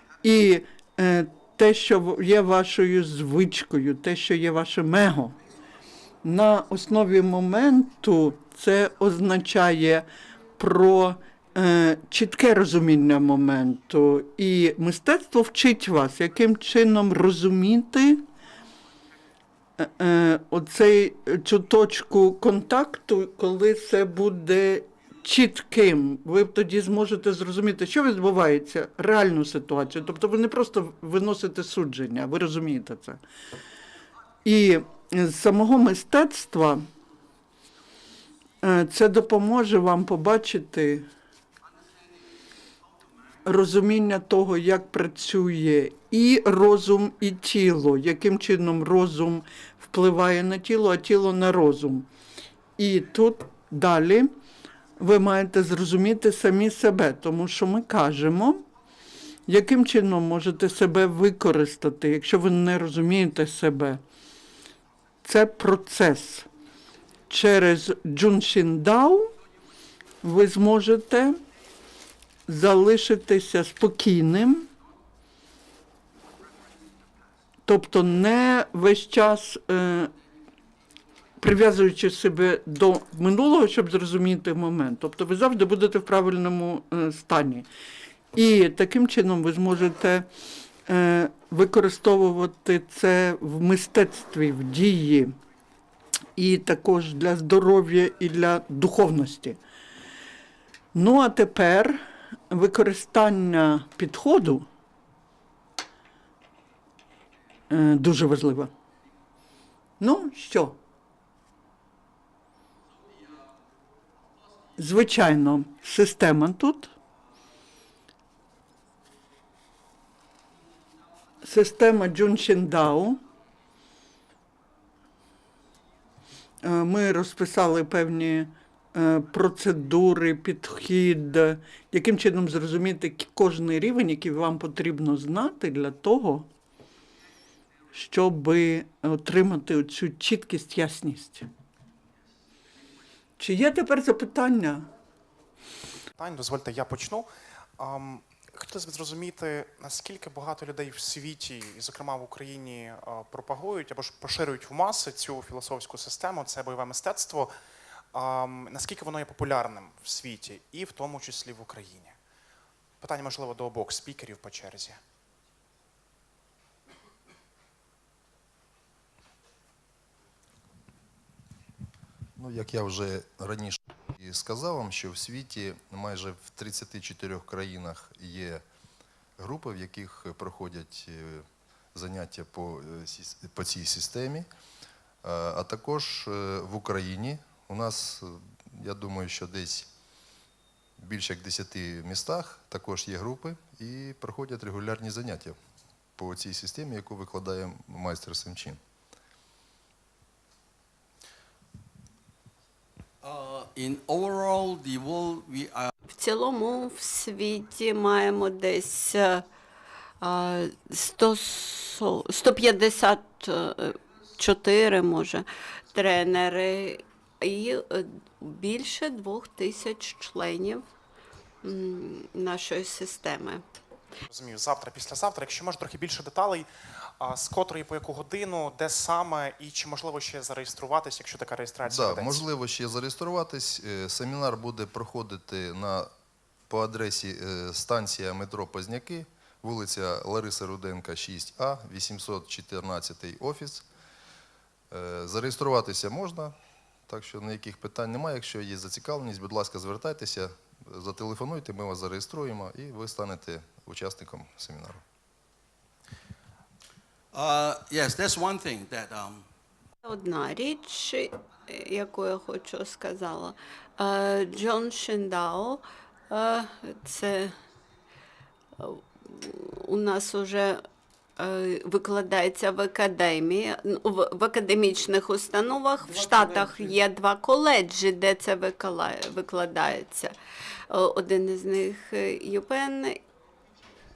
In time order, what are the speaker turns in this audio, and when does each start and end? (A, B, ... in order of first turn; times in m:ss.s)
0:00.2-0:05.4 A
0:06.2-0:10.0 A
0:10.6-0:18.2 A
0:19.8-0:33.2 A
0:34.4-0:36.8 A
0:38.6-0:41.1 A
0:43.4-0:52.1 A
0:52.8-0:54.3 A
0:55.0-0:58.6 A
0:59.5-1:04.0 A
1:05.2-1:06.5 A
1:07.3-1:09.3 A
1:10.2-1:11.4 A
1:12.5-1:14.7 A
1:17.6-1:20.1 A
1:21.4-1:27.7 A
1:28.3-1:30.3 A
1:30.9-1:35.3 A
1:36.4-1:39.6 A
1:40.9-1:44.6 A
1:47.7-1:48.7 A
1:50.0-1:50.8 A
1:54.8-1:56.9 A
2:01.4-2:03.2 A
2:06.6-2:16.5 A
2:17.9-2:21.5 A
2:23.4-2:24.9 A
2:26.2-2:37.5 B
2:38.1-2:42.2 B
2:43.0-2:45.0 B
2:52.4-2:58.6 C
2:59.4-3:04.5 C
3:05.2-3:09.9 C
3:11.0-3:15.6 C
3:16.2-3:18.8 C
3:23.2-3:25.9 D
3:26.2-3:29.4 E
3:30.2-3:40.8 E
3:41.6-3:43.6 E
3:44.3-3:52.4 B
3:51.8-3:56.1 C
3:56.7-4:03.8 C
4:04.9-4:06.5 C
4:07.1-4:15.0 C
4:17.3-4:19.4 D
4:20.0-4:27.5 E
4:28.8-4:30.8 E
4:31.4-4:40.3 E
4:36.0-4:36.9 A
4:40.9-4:43.2 E